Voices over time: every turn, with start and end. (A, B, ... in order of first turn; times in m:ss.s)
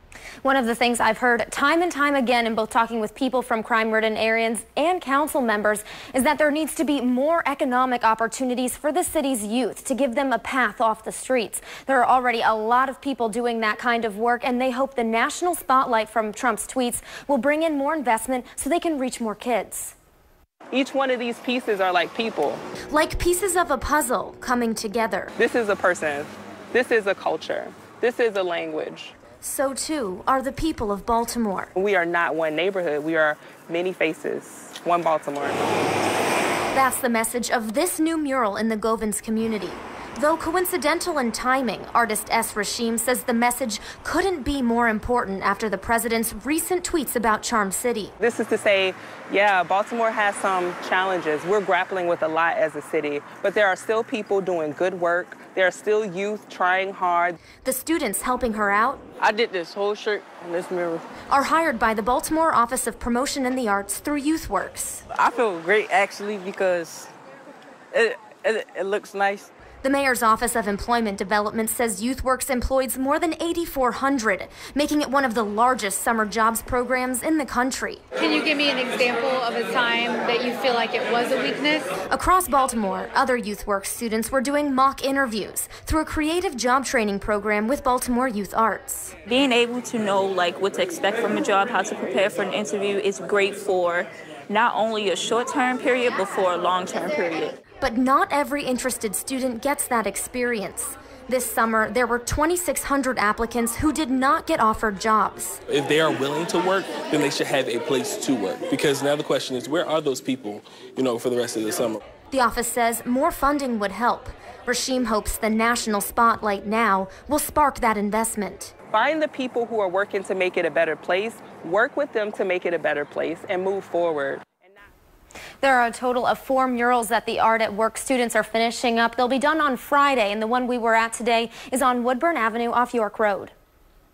0:00.4-0:20.0 A
0:20.7-0:22.6 B
0:22.9-0:25.3 A
0:25.4-0:29.1 B
0:29.4-0:31.7 A
0:31.8-0:35.6 B
0:36.8-0:48.1 A
0:48.2-0:57.4 B
0:57.6-0:59.0 A
0:59.2-1:01.0 C
1:01.3-1:05.0 A
1:05.1-1:07.1 C
1:07.9-1:09.5 C
1:09.8-1:18.0 A
1:18.2-1:21.9 D
1:22.1-1:29.2 A
1:29.2-1:37.6 E
1:37.8-1:45.6 A
1:45.7-1:52.0 F
1:52.3-1:58.7 A
1:58.9-2:04.4 B
2:05.6-2:13.5 A